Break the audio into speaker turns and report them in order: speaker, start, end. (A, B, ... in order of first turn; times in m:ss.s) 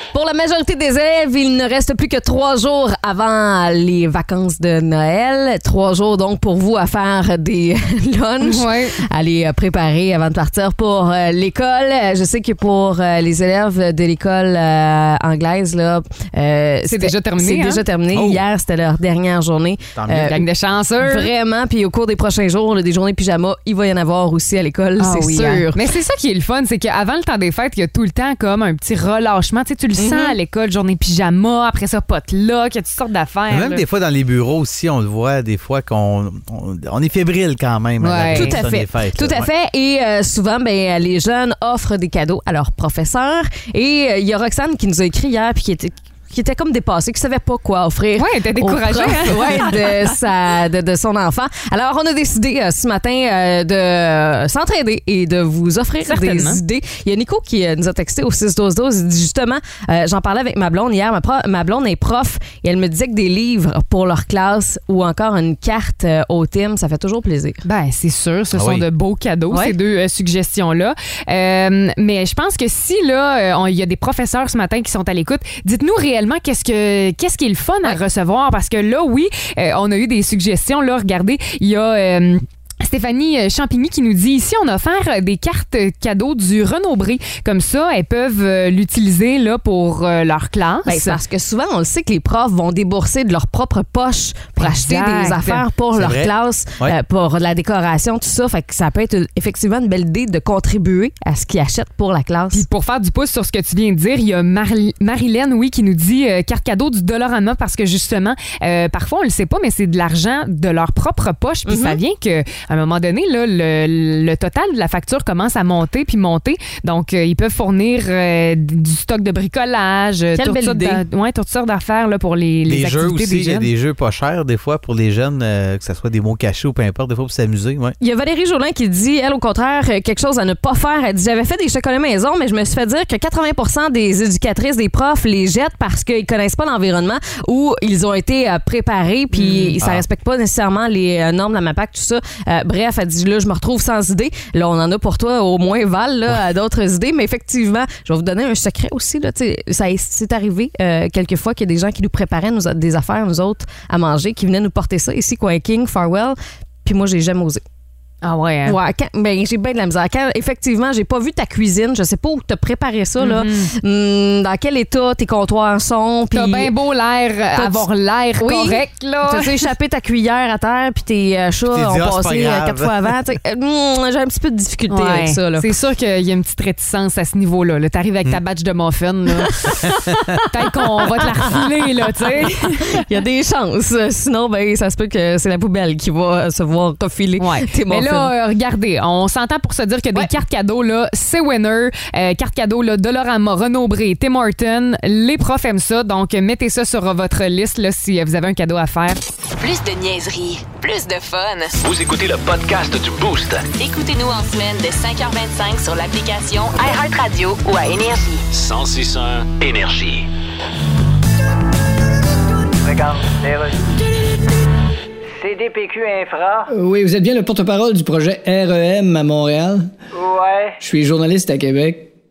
0:00.1-0:20.4 A
0:08.4-0:09.0 B
0:16.9-0:17.8 B
0:18.1-0:18.4 C
0:20.0-0:20.4 C
0:20.2-0:21.3 B
0:21.0-0:25.8 A
0:25.0-0:33.8 B
0:30.0-0:30.4 A
0:33.5-0:39.5 C
0:38.0-0:38.6 B
0:38.3-1:07.6 A
0:48.2-0:50.1 B
0:56.0-0:56.6 B
1:07.6-1:31.2 B
1:08.5-1:08.8 C
1:09.5-1:09.8 A
1:30.8-1:42.6 A
1:34.6-1:35.6 B
1:35.9-1:37.0 C
1:42.5-2:03.7 B
1:51.7-1:52.0 A
2:00.4-2:01.0 A
2:02.7-2:08.0 C
2:08.0-2:37.6 A
2:19.3-2:19.8 B
2:38.2-2:38.8 B
2:38.6-2:46.7 A
2:43.2-2:43.7 B
2:46.3-2:49.6 B
2:47.6-2:47.9 A
2:48.4-2:55.7 A
2:51.7-2:53.2 C
2:54.9-2:59.9 B
3:00.5-3:03.0 B
3:01.0-3:01.5 A
3:02.3-3:08.3 A
3:07.4-3:19.2 B
3:19.6-3:21.8 D
3:21.8-3:23.7 E
3:23.8-3:28.4 D
3:28.5-3:30.3 E
3:32.8-3:33.8 F
3:35.4-3:36.7 F
3:36.7-3:39.9 G
3:40.1-3:40.8 F
3:40.8-3:42.1 G